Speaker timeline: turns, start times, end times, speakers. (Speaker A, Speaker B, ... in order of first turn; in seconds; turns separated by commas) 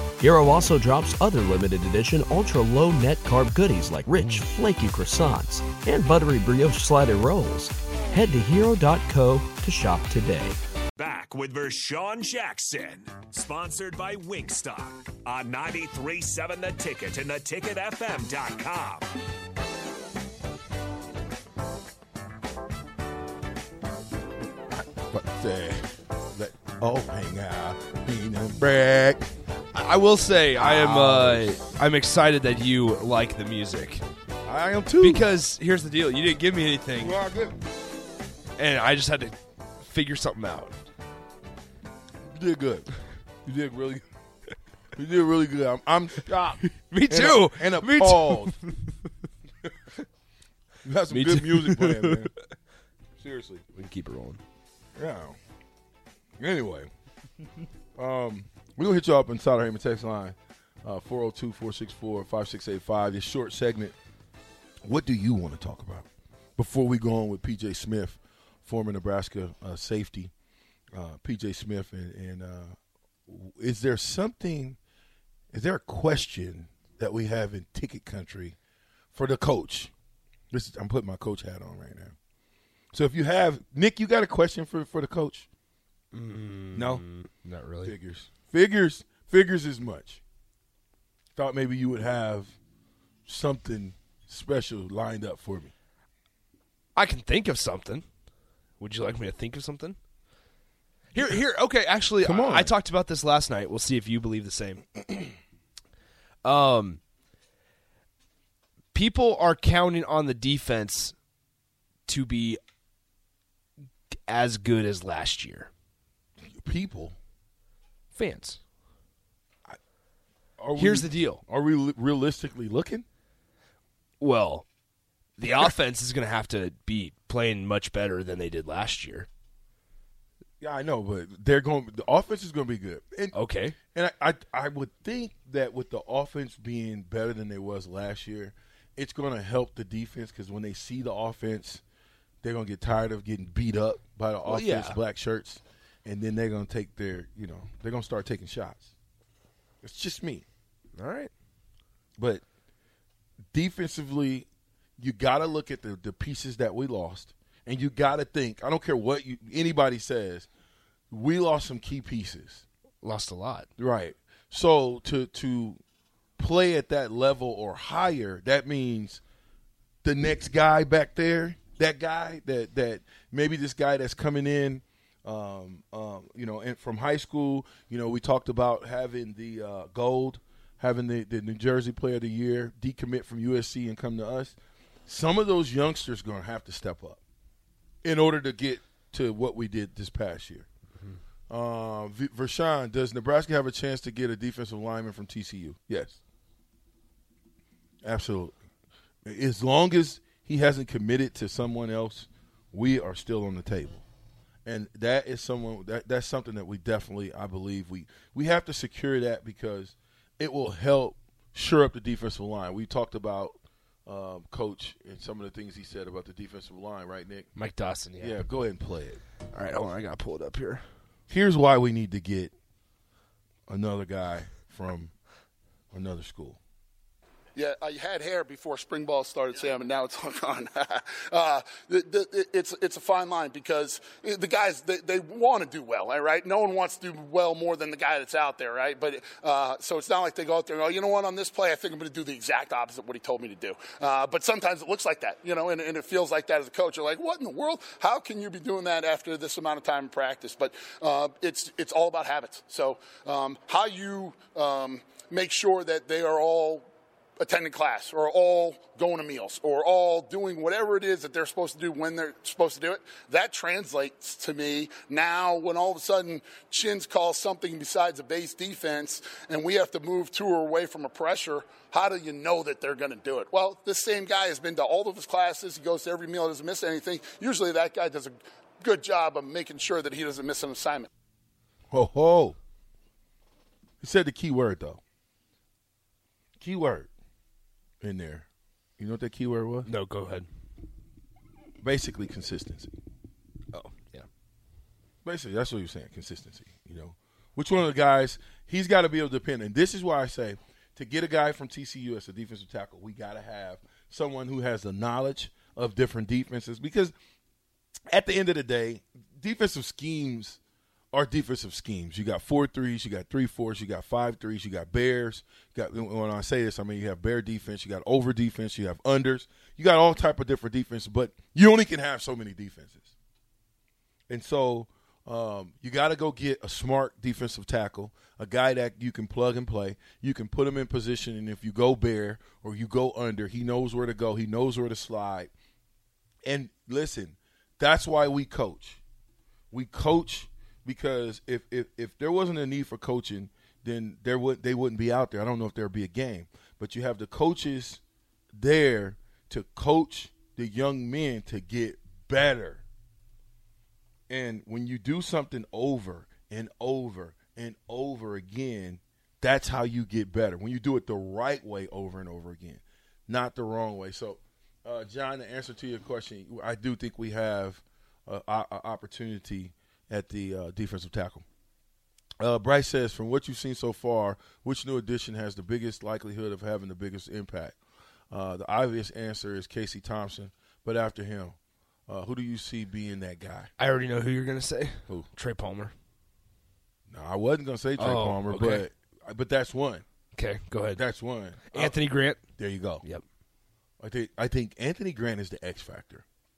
Speaker A: 0.2-10.6, Speaker B: 11.0-19.1, Speaker C: 24.7-29.3, Speaker D: 29.7-34.1, Speaker C: 30.6-31.6, Speaker C: 34.5-35.3, Speaker D: 35.0-37.1, Speaker C: 37.0-37.6, Speaker D: 38.6-40.8, Speaker C: 42.2-44.1, Speaker C: 45.0-48.6, Speaker D: 46.7-48.8, Speaker C: 50.8-52.4, Speaker D: 51.1-52.3, Speaker C: 53.2-53.6, Speaker D: 53.7-54.4, Speaker C: 55.0-55.4, Speaker C: 56.4-56.9, Speaker C: 58.0-64.0, Speaker C: 64.8-70.3, Speaker C: 70.9-72.8, Speaker C: 73.3-74.8, Speaker C: 75.5-78.6, Speaker C: 79.1-79.9, Speaker C: 80.5-82.2, Speaker C: 82.9-85.5, Speaker D: 86.1-87.9, Speaker C: 86.7-87.0, Speaker C: 87.8-90.2, Speaker C: 91.4-92.6, Speaker C: 93.3-95.7, Speaker D: 97.0-98.1, Speaker D: 98.8-100.0, Speaker D: 101.1-104.9, Speaker C: 102.2-102.8, Speaker D: 106.4-107.0, Speaker D: 108.9-111.2, Speaker D: 112.1-112.6, Speaker D: 114.3-115.7, Speaker C: 116.5-117.2, Speaker D: 118.1-118.6, Speaker C: 120.6-123.1, Speaker D: 120.8-121.4, Speaker D: 124.2-124.7, Speaker D: 125.4-129.3, Speaker C: 130.6-133.4, Speaker D: 133.3-133.8, Speaker C: 133.9-141.8, Speaker C: 142.4-148.9, Speaker D: 144.4-145.0, Speaker C: 149.8-150.4, Speaker D: 151.0-151.3, Speaker C: 152.2-152.4, Speaker C: 153.5-154.5, Speaker C: 155.0-160.5, Speaker C: 161.1-162.7, Speaker D: 163.0-163.7, Speaker C: 163.8-165.8, Speaker C: 166.4-169.2, Speaker C: 170.0-184.6, Speaker C: 185.1-187.2, Speaker C: 188.0-190.7, Speaker C: 191.5-196.2, Speaker C: 198.0-198.6, Speaker C: 199.2-204.0, Speaker C: 204.7-217.5, Speaker D: 217.6-218.4, Speaker C: 218.2-219.2, Speaker D: 219.5-220.9, Speaker C: 221.3-222.5, Speaker C: 223.7-225.1, Speaker C: 225.9-226.6, Speaker E: 227.6-256.9, Speaker E: 257.4-281.1, Speaker C: 281.9-282.6, Speaker C: 284.0-285.0, Speaker C: 286.6-287.1, Speaker C: 288.0-288.5, Speaker C: 289.0-289.9, Speaker D: 289.9-290.5, Speaker C: 291.8-292.9, Speaker D: 293.7-294.3, Speaker C: 295.2-307.1, Speaker C: 308.1-310.6, Speaker C: 311.1-323.1, Speaker C: 324.3-335.5, Speaker C: 336.4-339.0, Speaker C: 339.7-348.0, Speaker C: 348.5-352.8, Speaker C: 354.3-371.4, Speaker C: 372.4-377.8, Speaker C: 378.3-383.7, Speaker D: 383.8-385.9, Speaker C: 387.1-390.1, Speaker D: 388.0-388.9, Speaker D: 390.4-391.0, Speaker C: 390.9-392.0, Speaker D: 391.6-393.2, Speaker C: 392.6-393.1, Speaker C: 394.0-396.2